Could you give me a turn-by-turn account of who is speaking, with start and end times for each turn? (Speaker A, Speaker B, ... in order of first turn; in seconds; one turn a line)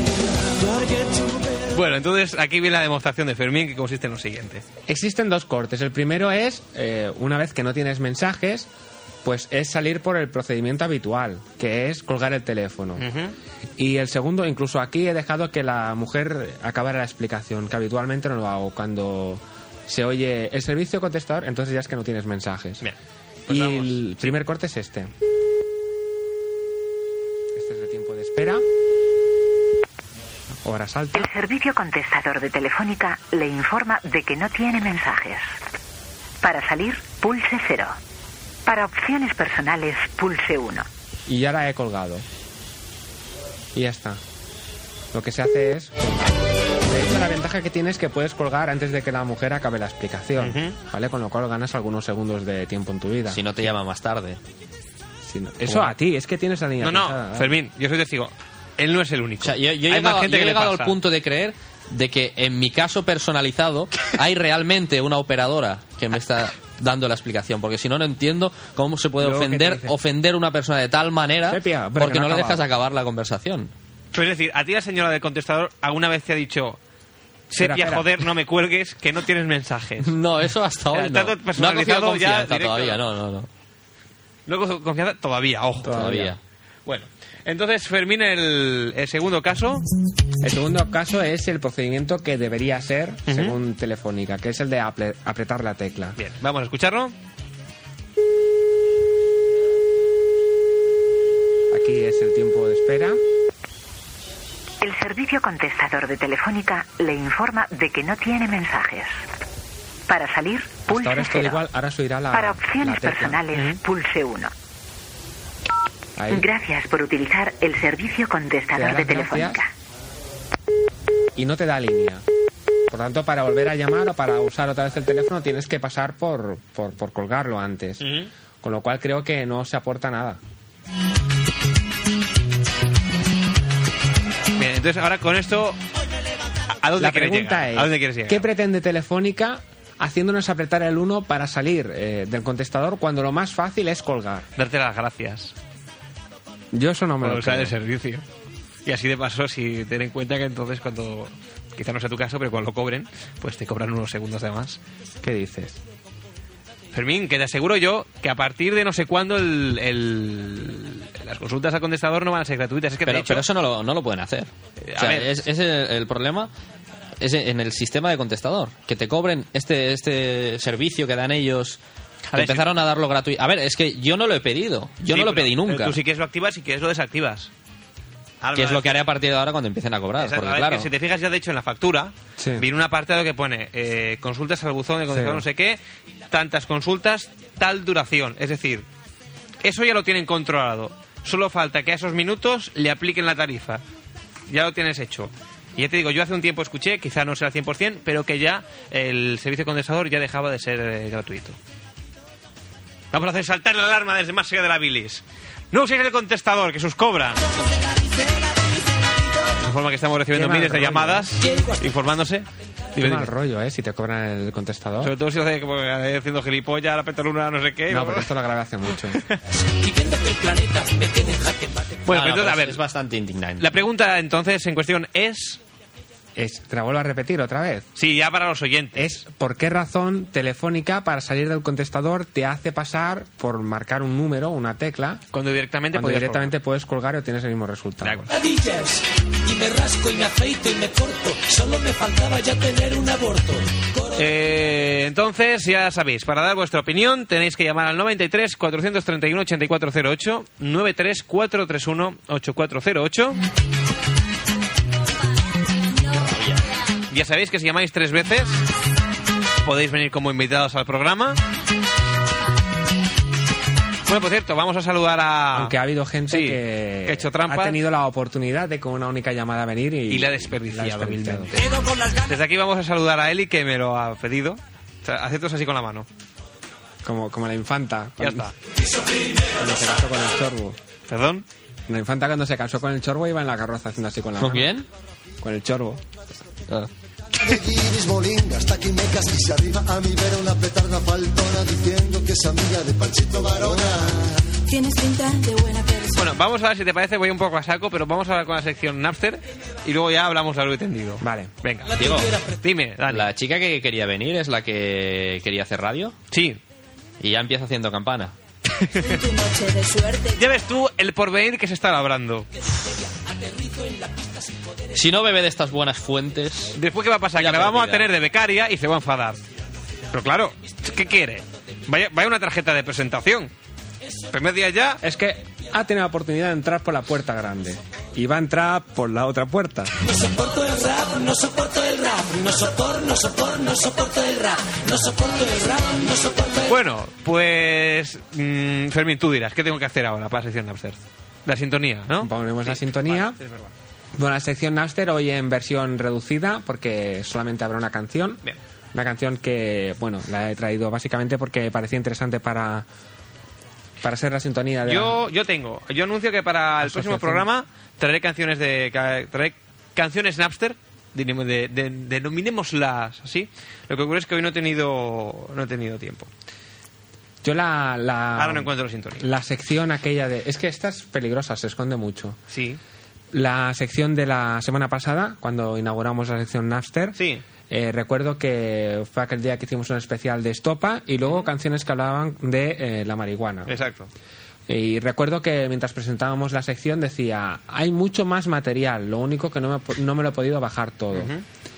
Speaker A: 0.6-1.8
Speaker B: 1.7-4.6
Speaker C: 4.9-8.7
Speaker C: 9.2-13.0
Speaker B: 13.0-13.3
Speaker C: 13.8-22.9
Speaker B: 23.5-24.3
Speaker C: 23.5-25.1
Speaker C: 27.5-28.6
Speaker C: 30.6-31.3
Speaker D: 31.1-35.5
Speaker D: 36.4-37.9
Speaker D: 38.6-40.9
Speaker C: 41.3-42.2
Speaker C: 43.7-44.2
Speaker C: 45.1-53.4
Speaker B: 50.4-50.7
Speaker E: 53.3-54.4
Speaker C: 55.2-57.5
Speaker B: 56.8-60.9
Speaker E: 59.4-73.7
Speaker C: 69.2-70.0
Speaker C: 71.5-72.6
Speaker B: 74.1-76.8
Speaker B: 77.5-80.1
Speaker C: 77.5-78.2
Speaker E: 80.0-83.5
Speaker B: 80.9-83.0
Speaker B: 84.5-86.0
Speaker C: 85.8-86.3
Speaker E: 85.9-86.4
Speaker B: 86.8-89.8
Speaker C: 90.4-96.2
Speaker B: 93.3-93.5
Speaker B: 96.2-97.1
Speaker C: 101.7-103.2
Speaker D: 104.8-109.2
Speaker D: 110.1-111.6
Speaker C: 110.9-113.4
Speaker D: 112.3-114.5
Speaker C: 116.2-116.5
Speaker D: 116.3-119.7
Speaker C: 118.7-119.6
Speaker C: 121.3-122.2
Speaker C: 122.9-130.4
Speaker B: 128.0-128.3
Speaker B: 134.6-135.8
Speaker B: 136.8-138.4
Speaker C: 137.0-144.5
Speaker B: 144.6-145.5
Speaker C: 146.7-147.7
Speaker B: 147.2-148.2
Speaker B: 148.8-154.8
Speaker C: 155.2-155.8
Speaker B: 156.9-163.4
Speaker E: 163.1-166.5
Speaker B: 164.8-165.4
Speaker E: 167.2-171.8
Speaker B: 172.3-172.7
Speaker E: 172.3-176.0
Speaker B: 175.1-177.5
Speaker B: 178.4-179.1
Speaker E: 178.5-180.9
Speaker B: 180.2-185.8
Speaker C: 182.4-182.7
Speaker C: 185.1-185.4
Speaker B: 186.3-188.8
Speaker B: 189.6-193.8
Speaker B: 194.5-201.6
Speaker B: 203.1-207.4
Speaker B: 209.6-213.3
Speaker C: 210.3-211.3
Speaker C: 213.0-215.1
Speaker B: 215.0-218.3
Speaker C: 217.9-219.2
Speaker A: 219.8-222.0
Speaker B: 222.1-222.8
Speaker E: 222.1-223.7
Speaker B: 223.6-225.6
Speaker C: 226.3-227.9
Speaker B: 228.0-229.0
Speaker C: 228.9-235.2
Speaker B: 235.3-236.5
Speaker C: 235.9-238.3
Speaker B: 238.0-238.3
Speaker A: 238.3-244.3
Speaker B: 244.2-253.4
Speaker E: 256.1-256.6
Speaker B: 257.1-258.6
Speaker B: 259.6-261.4
Speaker B: 264.1-265.7
Speaker C: 265.5-271.6
Speaker B: 266.3-267.8
Speaker B: 270.1-276.1
Speaker C: 277.0-278.5
Speaker B: 278.2-278.5
Speaker C: 279.6-280.8
Speaker B: 281.1-281.4
Speaker C: 281.9-284.7
Speaker E: 284.4-284.9
Speaker C: 285.4-286.0
Speaker F: 287.4-294.4
Speaker G: 294.7-296.2
Speaker B: 296.2-302.1
Speaker C: 301.2-301.5
Speaker E: 302.0-302.3
Speaker B: 302.6-303.3
Speaker E: 303.1-306.1
Speaker B: 306.3-306.6
Speaker E: 307.2-308.3
Speaker B: 308.8-309.2
Speaker G: 309.0-310.4
Speaker B: 310.4-312.5
Speaker E: 314.9-316.8
Speaker B: 316.7-319.4
Speaker E: 317.4-318.1
Speaker B: 320.1-323.5
Speaker B: 324.3-325.0
Speaker C: 325.0-329.9
Speaker A: 330.0-336.7
Speaker B: 336.7-343.7
Speaker C: 342.2-343.4
Speaker C: 344.1-348.4
Speaker C: 348.9-352.9
Speaker C: 354.0-355.2
Speaker B: 354.9-366.3
Speaker C: 356.8-357.5
Speaker C: 367.4-372.4
Speaker B: 368.4-369.2
Speaker B: 372.5-372.8
Speaker C: 373.3-377.2
Speaker B: 377.2-377.4
Speaker C: 377.7-383.7
Speaker B: 381.2-381.5
Speaker B: 383.7-384.1
Speaker C: 384.7-391.3
Speaker B: 391.1-391.4